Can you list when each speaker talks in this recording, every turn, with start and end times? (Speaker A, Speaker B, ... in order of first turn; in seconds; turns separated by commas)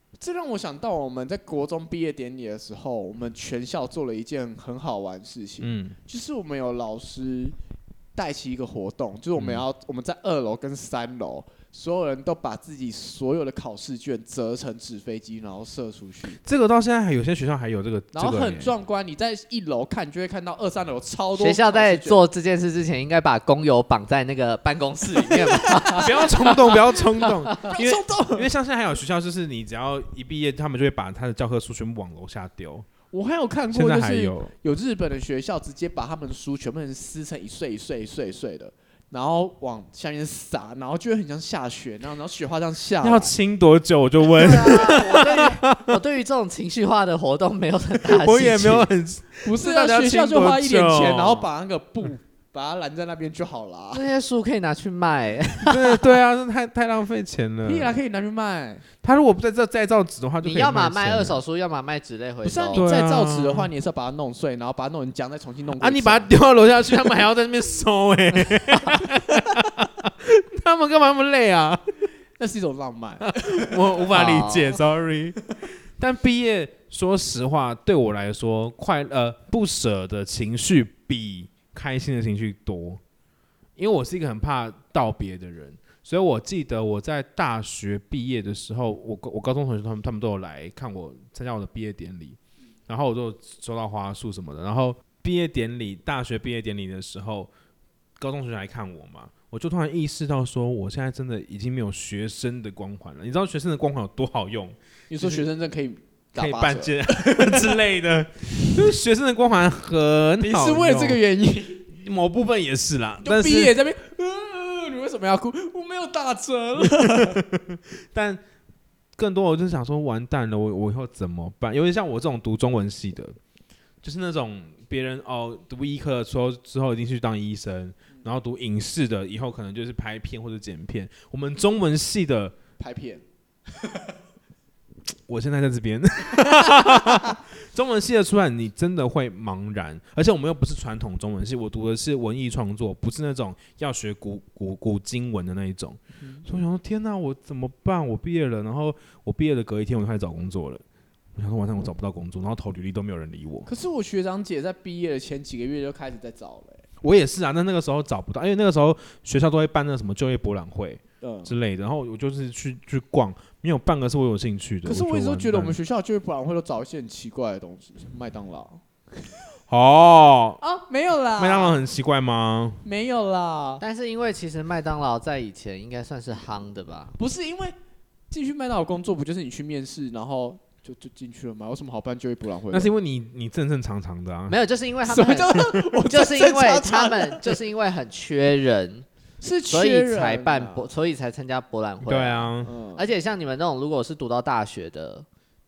Speaker A: 0.2-7.5, Speaker B: 5.6-6.0, Speaker A: 8.2-16.4, Speaker B: 9.4-9.6, Speaker B: 16.4-18.7, Speaker A: 18.1-22.2, Speaker C: 21.4-26.8, Speaker A: 25.5-26.7, Speaker B: 26.0-32.9, Speaker A: 27.6-28.5, Speaker A: 33.1-43.3, Speaker B: 33.7-34.5, Speaker B: 43.0-46.0, Speaker C: 44.2-48.9, Speaker B: 48.0-51.5, Speaker A: 49.4-54.0, Speaker C: 53.9-56.0, Speaker B: 55.7-57.9, Speaker A: 57.6-58.8, Speaker B: 59.0-61.4, Speaker C: 60.4-62.9, Speaker A: 62.4-66.3, Speaker B: 62.8-63.7, Speaker B: 65.8-71.8, Speaker A: 72.4-74.0, Speaker B: 73.3-83.0, Speaker C: 74.1-74.8, Speaker B: 83.8-97.5, Speaker B: 98.2-105.5, Speaker A: 105.1-107.8, Speaker B: 106.4-111.2, Speaker A: 110.4-111.9, Speaker B: 111.9-113.7, Speaker A: 113.2-117.4, Speaker B: 116.8-118.4, Speaker B: 119.2-123.4, Speaker B: 124.0-132.6, Speaker A: 132.8-133.2, Speaker B: 135.3-150.8, Speaker A: 146.2-146.5, Speaker B: 151.3-153.7, Speaker A: 153.7-156.8, Speaker B: 157.0-165.8, Speaker A: 161.2-161.5, Speaker A: 164.8-168.8, Speaker B: 169.7-170.6, Speaker A: 170.6-171.8, Speaker B: 171.4-172.8, Speaker A: 172.8-173.8, Speaker C: 173.8-177.2, Speaker A: 177.2-177.7, Speaker A: 178.3-182.9, Speaker B: 182.7-184.6, Speaker C: 184.5-189.1, Speaker A: 185.1-187.6, Speaker A: 189.4-190.9, Speaker C: 189.7-195.3, Speaker B: 192.0-192.7, Speaker A: 192.6-193.1